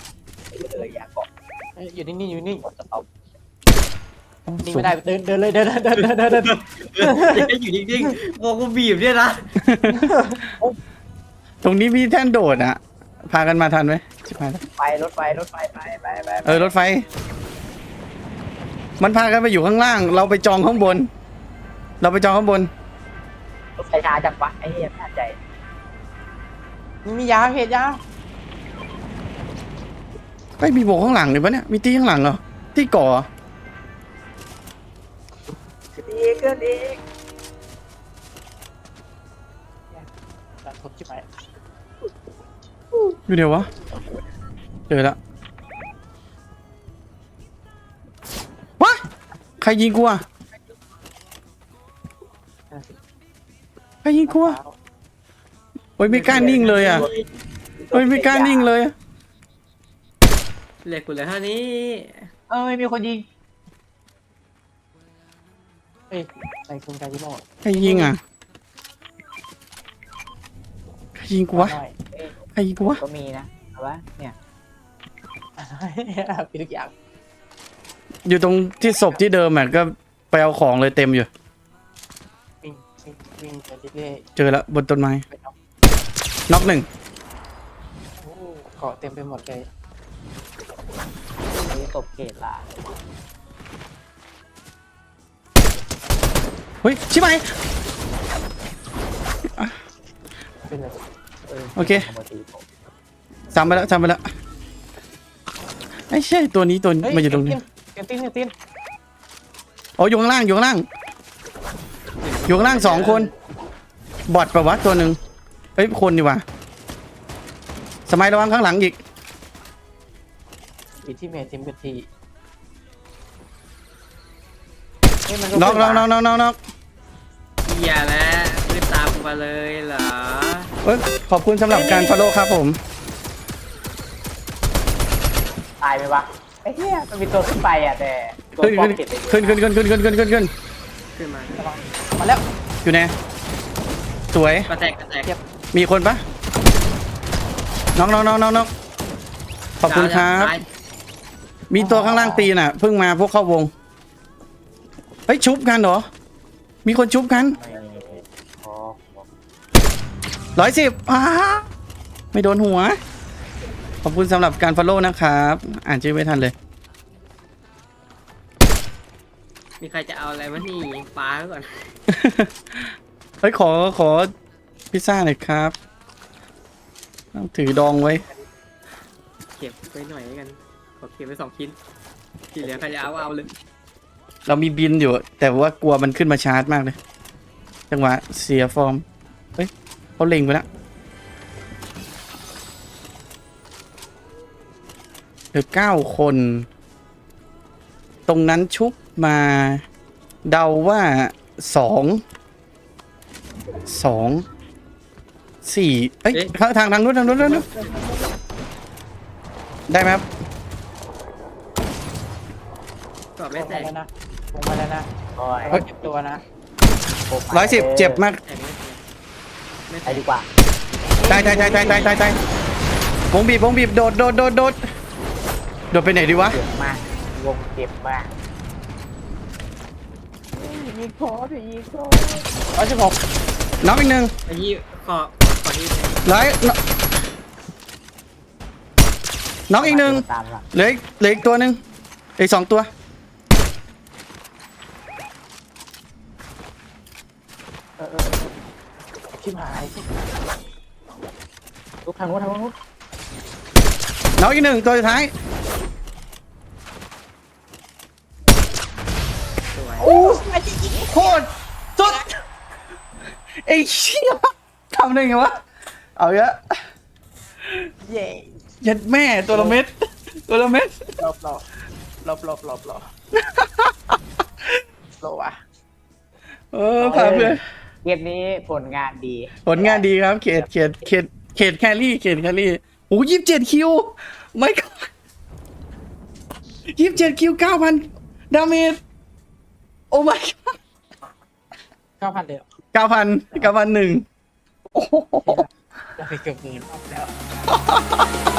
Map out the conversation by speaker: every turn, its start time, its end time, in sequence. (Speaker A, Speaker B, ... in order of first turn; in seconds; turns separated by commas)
Speaker A: 0.5-1.3, Speaker B: 1.8-2.6, Speaker A: 2.6-3.1, Speaker C: 4.5-4.9, Speaker B: 4.6-7.5, Speaker D: 6.3-9.6, Speaker C: 9.6-10.1, Speaker B: 9.9-10.8, Speaker C: 11.6-14.6, Speaker A: 14.8-16.7, Speaker C: 16.4-17.1, Speaker C: 19.0-21.1, Speaker C: 22.0-22.7, Speaker A: 23.8-25.4, Speaker B: 27.0-28.0, Speaker C: 30.6-33.3, Speaker B: 36.0-36.7, Speaker A: 36.2-36.7, Speaker B: 40.6-41.3, Speaker C: 43.3-43.7, Speaker C: 44.9-45.2, Speaker C: 49.6-50.2, Speaker C: 54.0-54.6, Speaker B: 54.3-54.8, Speaker C: 56.0-57.1, Speaker B: 56.1-57.1, Speaker A: 56.3-57.2, Speaker A: 57.8-58.7, Speaker C: 57.9-58.9, Speaker D: 60.8-62.3, Speaker A: 62.5-63.2, Speaker B: 66.1-68.1, Speaker C: 67.6-68.2, Speaker C: 71.1-71.8, Speaker B: 71.5-71.9, Speaker A: 72.1-74.3, Speaker C: 72.5-73.0, Speaker B: 75.6-76.9, Speaker C: 78.2-81.3, Speaker B: 82.6-84.2, Speaker C: 84.3-85.2, Speaker B: 85.3-85.5, Speaker C: 86.5-86.9, Speaker B: 88.2-89.7, Speaker A: 91.5-92.7, Speaker C: 96.8-97.5, Speaker C: 99.5-99.8, Speaker B: 100.7-101.0, Speaker A: 101.5-102.7, Speaker C: 101.8-102.1, Speaker C: 103.5-104.2, Speaker C: 106.1-107.6, Speaker B: 107.0-108.5, Speaker C: 110.0-110.8, Speaker D: 112.2-113.3, Speaker C: 112.5-113.3, Speaker C: 114.3-115.2, Speaker C: 115.8-116.4, Speaker C: 118.1-119.0, Speaker B: 121.0-122.0, Speaker B: 125.3-126.1, Speaker C: 125.5-126.6, Speaker D: 127.6-130.7, Speaker C: 130.8-132.8, Speaker B: 131.7-132.3, Speaker A: 135.8-139.6, Speaker C: 138.6-140.5, Speaker D: 141.2-141.6, Speaker B: 141.6-142.4, Speaker C: 142.8-143.1, Speaker C: 144.3-144.7, Speaker D: 144.7-145.3, Speaker C: 145.7-146.2, Speaker C: 147.9-148.7, Speaker C: 149.8-150.6, Speaker D: 149.8-150.6, Speaker C: 151.7-153.7, Speaker B: 151.8-152.4, Speaker C: 155.3-156.1, Speaker C: 156.8-157.6, Speaker A: 157.3-159.2, Speaker C: 160.6-161.7, Speaker C: 162.3-163.0, Speaker C: 164.0-166.5, Speaker D: 169.8-171.9, Speaker C: 172.1-174.3, Speaker C: 174.9-175.7, Speaker C: 177.3-178.2, Speaker D: 179.5-181.8, Speaker D: 182.5-183.5, Speaker A: 182.6-183.1, Speaker C: 184.4-186.9, Speaker C: 187.9-189.0, Speaker C: 189.6-190.7, Speaker C: 195.5-196.7, Speaker C: 198.3-199.8, Speaker C: 200.4-202.2, Speaker C: 203.9-204.4, Speaker C: 205.6-207.7, Speaker B: 207.3-208.3, Speaker D: 207.4-207.9, Speaker C: 209.9-210.2, Speaker D: 213.4-213.9, Speaker B: 213.6-215.1, Speaker A: 215.3-215.8, Speaker B: 215.7-216.4, Speaker A: 217.3-218.2, Speaker C: 217.5-218.4, Speaker D: 218.3-219.0, Speaker D: 219.9-220.2, Speaker A: 220.1-220.5, Speaker B: 221.1-222.2, Speaker C: 221.3-222.4, Speaker C: 223.3-224.8, Speaker C: 225.9-226.6, Speaker A: 226.4-228.3, Speaker B: 230.5-233.2, Speaker C: 233.8-234.3, Speaker D: 234.5-236.2, Speaker C: 236.2-236.8, Speaker C: 239.7-241.8, Speaker A: 239.8-240.7, Speaker C: 242.4-242.9, Speaker B: 248.0-248.5, Speaker B: 249.3-250.1, Speaker A: 252.1-252.7, Speaker C: 254.4-255.3, Speaker D: 259.7-260.1, Speaker B: 260.0-261.2, Speaker C: 261.1-262.4, Speaker C: 263.5-266.9, Speaker C: 267.6-267.9, Speaker B: 268.0-268.6, Speaker C: 268.8-271.1, Speaker B: 269.5-269.8, Speaker B: 271.2-271.6, Speaker B: 272.2-273.1, Speaker C: 273.4-274.7, Speaker B: 275.2-275.6, Speaker C: 276.7-277.6, Speaker A: 277.0-280.8, Speaker C: 279.6-285.1, Speaker C: 286.9-289.0, Speaker C: 290.1-290.8, Speaker B: 292.2-292.7, Speaker C: 292.9-294.2, Speaker C: 294.9-295.6, Speaker B: 295.4-297.4, Speaker C: 297.7-298.1